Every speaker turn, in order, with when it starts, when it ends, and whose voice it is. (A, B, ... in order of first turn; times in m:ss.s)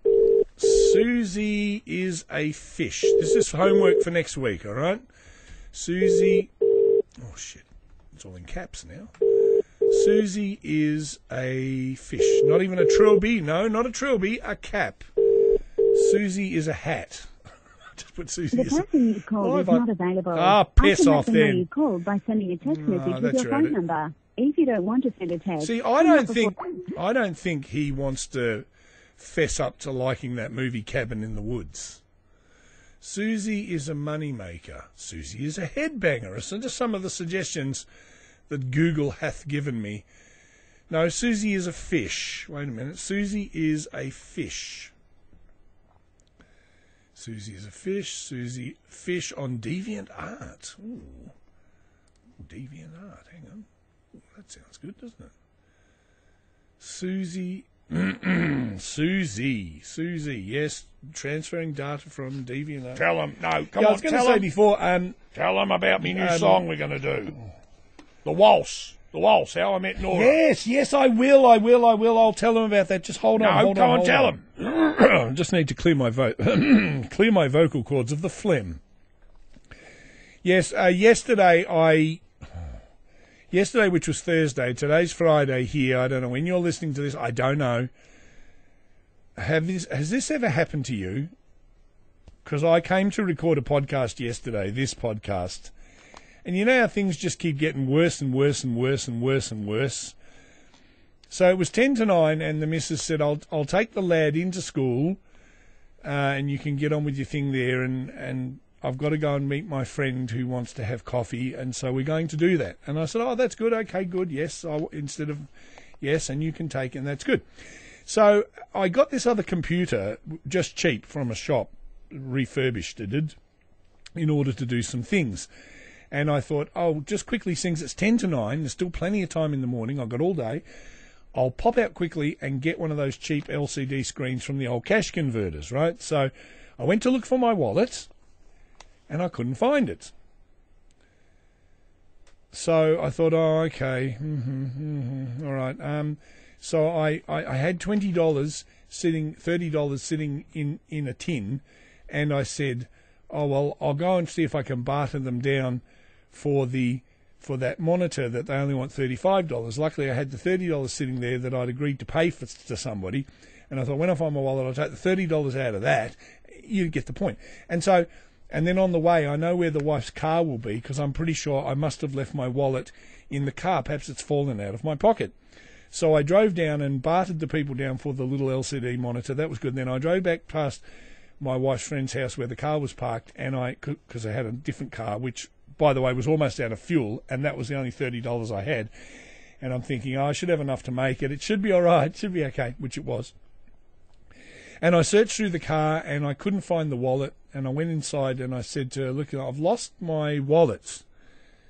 0:00.6-0:05.0 A
0:05.7-0:06.5 A
0:07.2-0:09.1 A
0:09.9-0:15.1 A
0:15.9-0:17.3 A
0:18.0-0:21.7 A
0:18.5-0:26.6 B
0:22.6-0:23.8 A
0:25.6-0:28.6 A
0:29.2-0:32.0 A
0:33.0-0:37.9 A
0:38.5-0:40.0 A
0:40.9-0:44.9 A
0:47.2-0:51.3 A
0:52.4-0:53.6 A
0:54.3-0:55.3 A
0:56.8-1:03.0 A
1:02.9-1:04.5 C
1:03.7-1:05.2 A
1:05.3-1:07.4 C
1:06.0-1:06.6 A
1:08.2-1:10.4 C
1:10.0-1:18.8 A
1:13.4-1:14.5 C
1:20.4-1:22.2 A
1:23.5-1:27.9 A
1:29.4-1:31.3 A
1:32.4-1:35.7 A
1:36.4-1:40.1 A
1:41.3-1:45.2 A
1:46.0-1:55.4 A
1:56.0-1:57.4 A
1:58.1-2:03.4 A
2:04.2-2:05.5 A
2:06.1-2:10.6 A
2:11.3-2:18.1 A
2:19.1-2:20.1 A
2:22.5-2:55.3 A
2:55.9-3:00.8 A
3:01.4-3:08.9 A
3:09.6-3:13.3 A
3:14.8-3:21.0 A